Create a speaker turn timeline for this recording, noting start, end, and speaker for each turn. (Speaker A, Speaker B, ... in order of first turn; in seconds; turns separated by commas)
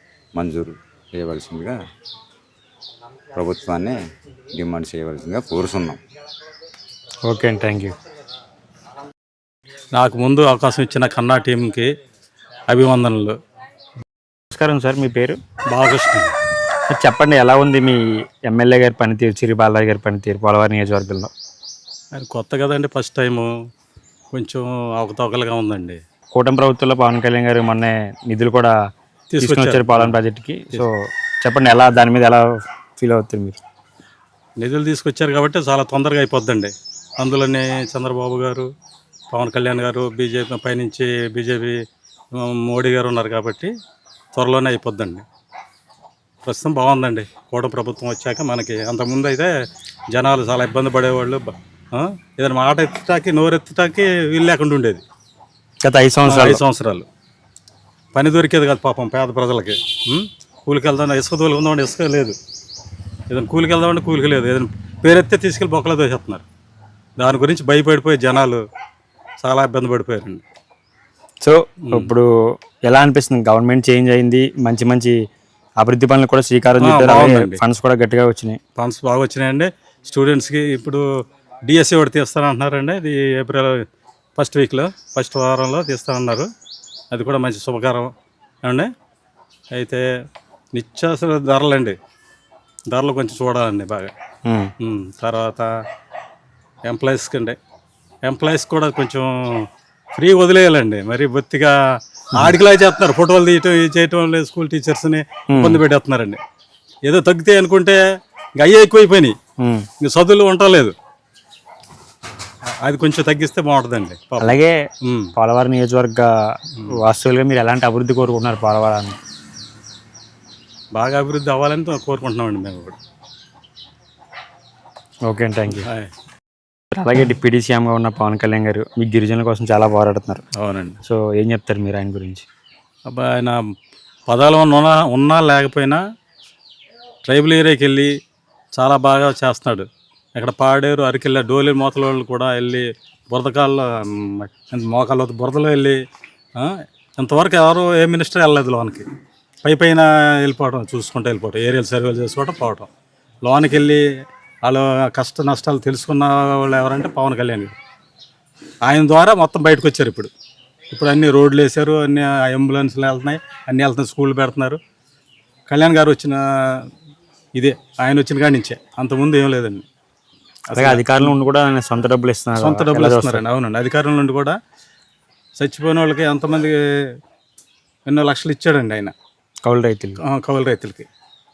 Speaker A: 0.3-1.8, Speaker A: 3.4-4.0, Speaker A: 4.5-6.0, Speaker B: 7.3-7.9, Speaker C: 9.9-11.9, Speaker C: 12.7-13.4, Speaker B: 14.5-15.4, Speaker C: 15.7-16.3, Speaker B: 16.9-21.3, Speaker C: 22.1-23.5, Speaker C: 24.3-26.0, Speaker B: 26.4-28.7, Speaker C: 29.3-30.2, Speaker B: 29.4-32.4, Speaker B: 33.0-33.6, Speaker C: 34.6-38.7, Speaker C: 39.3-41.8, Speaker C: 42.4-43.7, Speaker C: 44.4-45.2, Speaker C: 46.4-49.5, Speaker C: 50.1-55.0, Speaker B: 55.8-56.6, Speaker C: 56.3-57.1, Speaker C: 58.1-62.4, Speaker C: 63.3-66.5, Speaker C: 67.2-68.6, Speaker C: 69.4-70.4, Speaker B: 71.4-72.3, Speaker C: 71.9-72.1, Speaker B: 72.9-75.2, Speaker B: 75.8-78.6, Speaker C: 76.8-77.6, Speaker C: 78.8-81.0, Speaker C: 81.7-83.8, Speaker C: 84.4-86.5, Speaker C: 87.1-88.1, Speaker C: 88.6-88.9, Speaker C: 89.7-90.0, Speaker C: 90.7-92.0, Speaker C: 92.9-94.1, Speaker B: 94.5-94.7, Speaker C: 94.8-95.7, Speaker C: 96.8-97.6, Speaker C: 98.2-106.4, Speaker B: 105.5-105.8, Speaker C: 107.1-108.0, Speaker C: 108.6-109.4, Speaker B: 109.6-109.9, Speaker C: 110.0-110.9, Speaker C: 112.8-115.3, Speaker B: 114.4-114.8, Speaker B: 115.4-116.3, Speaker B: 117.0-119.2, Speaker C: 121.0-123.0, Speaker B: 125.3-125.9, Speaker C: 125.8-126.1, Speaker B: 126.9-130.4, Speaker C: 130.6-131.0, Speaker B: 131.1-132.4, Speaker C: 133.1-133.6, Speaker C: 134.3-136.0, Speaker C: 137.2-138.1, Speaker C: 138.7-146.0, Speaker C: 146.6-149.1, Speaker C: 149.6-152.9, Speaker C: 153.4-154.0, Speaker C: 154.6-157.7, Speaker C: 158.8-160.3, Speaker C: 160.9-164.8, Speaker C: 165.7-166.9, Speaker C: 167.6-169.8, Speaker C: 170.7-171.3, Speaker B: 170.8-173.4, Speaker C: 172.6-174.6, Speaker C: 175.6-176.8, Speaker C: 178.1-179.1, Speaker B: 179.7-180.2, Speaker C: 180.2-181.1